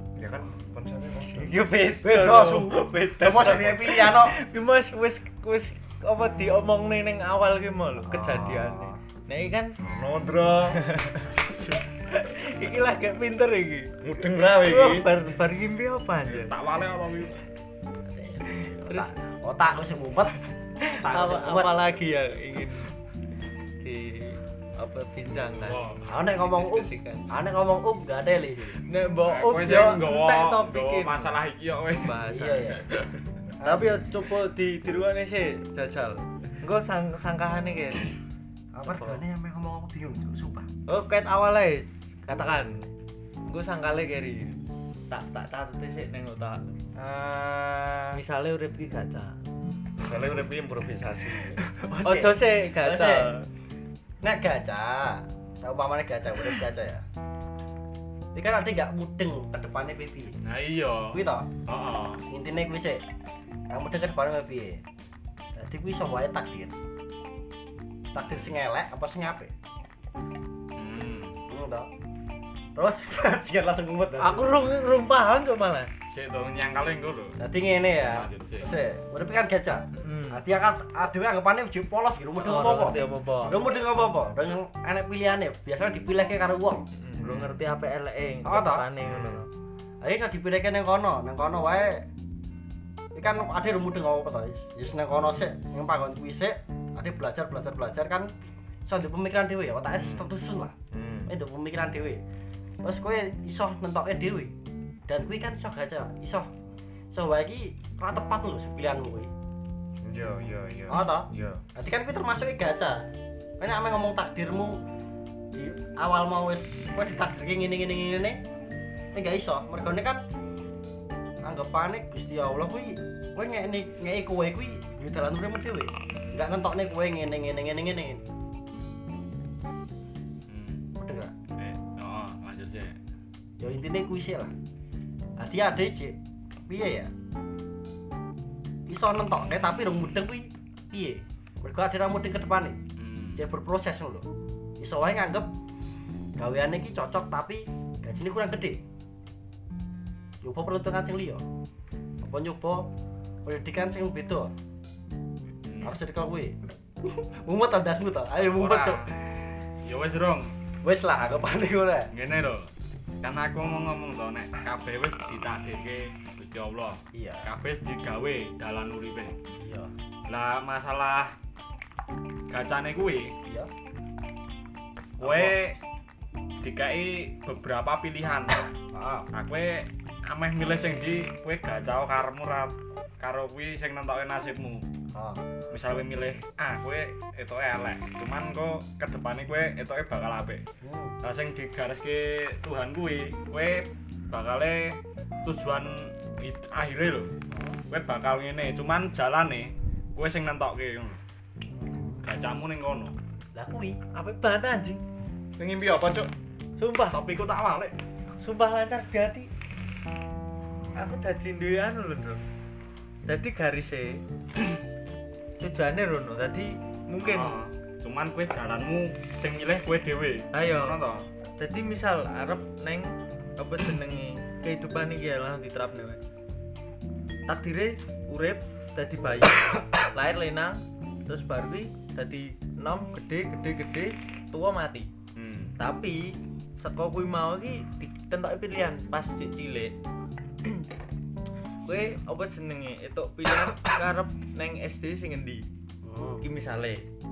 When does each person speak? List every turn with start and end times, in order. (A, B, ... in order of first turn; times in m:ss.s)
0:00.2-0:01.6 A
0:01.3-0:09.8 B
0:02.0-0:04.4 C
0:08.0-0:09.0 C
0:09.8-0:10.8 A
0:10.7-0:11.4 B
0:11.5-0:11.8 D
0:12.1-0:16.6 B
0:14.0-0:15.1 A
0:16.2-0:17.5 D
0:18.1-0:20.4 C
0:18.8-0:19.2 B
0:20.8-0:22.9 B
0:21.0-0:21.7 C
0:23.8-0:27.3 B
0:25.6-0:26.1 D
0:26.1-0:28.8 C
0:28.8-0:31.4 B
0:29.2-0:32.2 D
0:31.9-0:32.8 B
0:32.3-0:32.9 C
0:33.6-0:34.1 C
0:33.6-0:38.1 B
0:38.7-0:40.7 C
0:38.8-0:39.2 B
0:40.8-0:42.9 B
0:43.5-0:46.7 B
0:47.0-0:48.2 C
0:48.1-0:49.4 B
0:50.0-0:51.6 A
0:51.6-0:53.3 C
0:52.0-0:53.5 B
0:54.2-0:57.0 C
0:58.3-1:00.4 C
1:00.4-1:02.2 D
1:01.1-1:01.5 C
1:02.3-1:03.0 C
1:03.7-1:04.8 C
1:05.5-1:06.7 C
1:08.1-1:09.5 C
1:08.2-1:08.5 D
1:10.8-1:11.4 D
1:11.5-1:11.9 C
1:12.7-1:14.5 C
1:14.2-1:15.9 B
1:16.1-1:17.4 D
1:17.4-1:26.8 C
1:18.1-1:18.7 D
1:19.9-1:20.4 B
1:22.4-1:23.6 B
1:26.9-1:29.5 B
1:27.2-1:27.6 A
1:28.4-1:28.9 C
1:29.0-1:29.4 A
1:30.0-1:32.0 C
1:33.1-1:38.3 C
1:38.8-1:40.7 C
1:40.0-1:40.3 A
1:40.9-1:41.3 A
1:41.3-1:42.2 C
1:42.8-1:44.5 C
1:45.1-1:46.5 C
1:47.1-1:49.3 C
1:50.0-1:51.6 A
1:50.9-1:53.1 C
1:53.6-1:54.8 C
1:55.5-1:58.4 C
1:59.1-2:00.2 C
2:01.4-2:08.2 C
2:10.5-2:10.9 D
2:11.0-2:11.3 C
2:11.6-2:13.0 D
2:13.6-2:14.5 C
2:15.4-2:16.2 C
2:16.7-2:17.1 C
2:18.9-2:22.8 C
2:23.0-2:23.4 D
2:23.4-2:24.2 C
2:24.8-2:25.5 C
2:26.4-2:28.8 C
2:30.4-2:31.4 C
2:32.2-2:32.9 C
2:33.4-2:34.5 C
2:35.6-2:36.0 D
2:35.8-2:39.0 C
2:38.5-2:39.1 D
2:39.8-2:40.5 D
2:40.8-2:42.1 C
2:42.1-2:49.4 D
2:47.1-2:47.5 C
2:49.6-2:49.9 C
2:50.3-2:51.3 D
2:52.5-2:53.3 D
2:55.2-2:55.7 C
2:55.2-2:55.8 D
2:56.6-2:58.6 D
2:58.9-2:59.3 C
2:59.3-3:04.8 D
3:05.1-3:05.4 C
3:05.7-3:10.6 D
3:10.8-3:11.2 C
3:11.2-3:17.3 D
3:17.5-3:17.8 C
3:17.9-3:21.2 D
3:21.7-3:22.2 C
3:22.2-3:23.1 D
3:23.5-3:24.0 C
3:24.1-3:25.0 B
3:25.6-3:26.3 A
3:26.8-3:27.2 B
3:27.1-3:28.0 D
3:28.4-3:29.5 B
3:30.9-3:32.4 B
3:33.2-3:34.2 B
3:35.6-3:37.6 B
3:37.2-3:41.2 D
3:40.5-3:41.0 B
3:41.6-3:46.2 B
3:47.5-3:55.1 B
3:55.4-3:55.7 D
3:55.8-3:59.9 B
4:01.8-4:05.7 B
4:06.0-4:06.4 C
4:06.4-4:07.0 B